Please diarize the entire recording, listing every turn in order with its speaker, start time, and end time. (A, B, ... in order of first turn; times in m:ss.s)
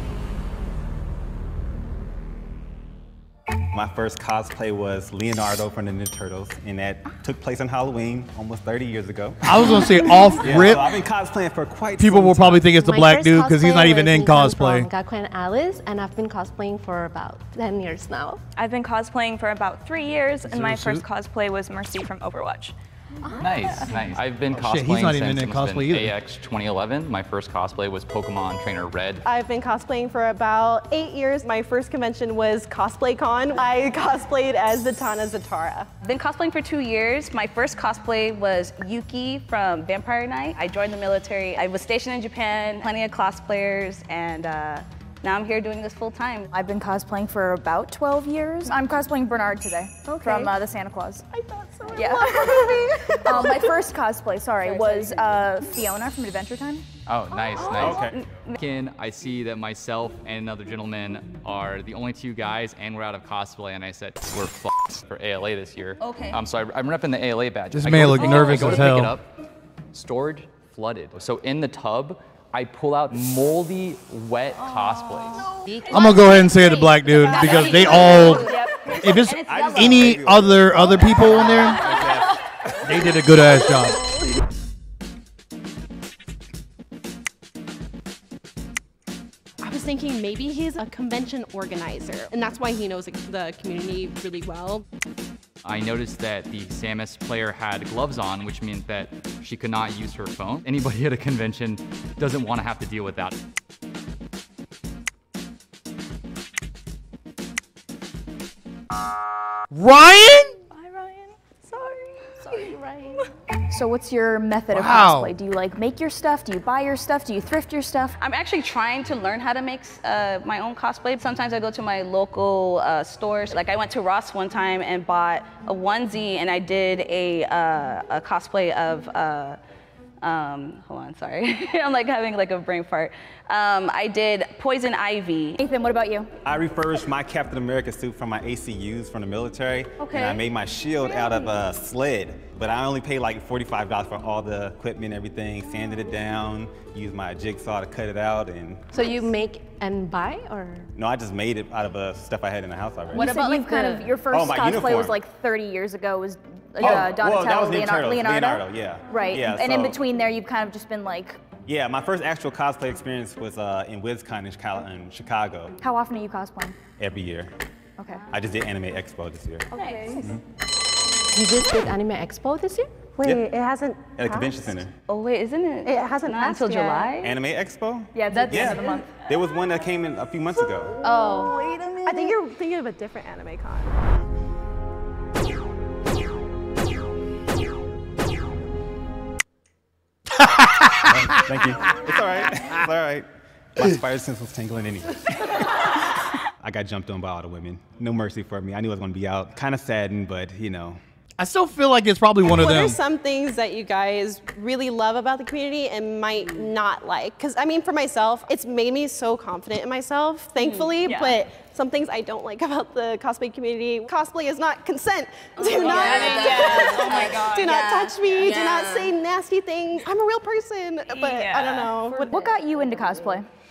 0:03.7-0:12.7 A
0:09.4-0:10.9 B
0:12.0-0:14.9 B
0:12.7-0:18.4 C
0:18.6-0:22.8 D
0:20.5-0:21.0 B
0:23.4-0:29.2 E
0:24.5-0:26.2 B
0:29.3-0:35.9 F
0:36.0-0:46.5 G
0:46.5-0:51.2 H
0:50.1-0:50.5 F
0:51.3-0:53.8 F
0:51.9-0:56.9 H
0:54.6-0:55.3 G
0:57.1-1:09.3 E
0:57.4-0:58.5 G
0:57.7-0:58.2 A
1:06.0-1:06.4 G
1:07.7-1:09.2 B
1:08.1-1:08.7 G
1:09.9-1:15.5 E
1:14.6-1:15.4 G
1:15.9-1:18.5 B
1:16.4-1:20.3 G
1:19.0-1:21.8 B
1:19.4-1:23.0 A
1:22.8-1:24.0 B
1:29.6-1:34.8 F
1:35.6-1:43.4 E
1:49.7-1:50.6 B
1:50.7-1:52.2 D
1:52.4-1:53.2 C
1:53.7-1:58.2 H
1:54.7-1:55.4 B
1:58.2-2:09.6 G
2:10.2-2:15.6 G
2:15.6-2:16.3 H
2:16.4-2:28.9 A
2:21.1-2:21.4 G
2:28.9-2:30.9 C
2:31.0-2:33.3 A
2:33.1-2:34.2 C
2:33.1-2:41.4 H
2:34.3-2:35.2 A
2:36.8-2:40.0 A
2:41.7-2:45.7 A
2:45.8-2:46.8 H
2:47.0-2:47.5 A
2:48.0-2:48.3 H
2:48.3-2:49.7 A
2:49.8-2:50.1 D
2:49.9-2:50.2 H
2:51.3-2:53.1 C
2:53.2-2:54.8 F
2:53.2-2:53.5 A
2:54.1-2:54.9 A
2:55.1-2:57.4 G
2:55.9-2:57.1 F
2:57.2-3:01.0 A
2:58.2-2:59.1 H
2:58.3-2:58.9 F
3:01.0-3:02.4 G
3:01.1-3:01.5 C
3:02.0-3:04.0 F
3:10.4-3:11.5 B
3:11.1-3:16.0 A
3:16.6-3:21.0 A
3:21.4-3:23.0 B
3:22.4-3:42.5 F
3:30.6-3:31.0 G
3:31.0-3:31.4 D
3:35.8-3:37.6 H
3:35.9-3:37.7 D
3:37.7-3:38.1 G
3:38.4-3:39.1 H
3:41.1-3:42.0 D
3:42.1-3:43.5 H
3:42.3-3:43.4 G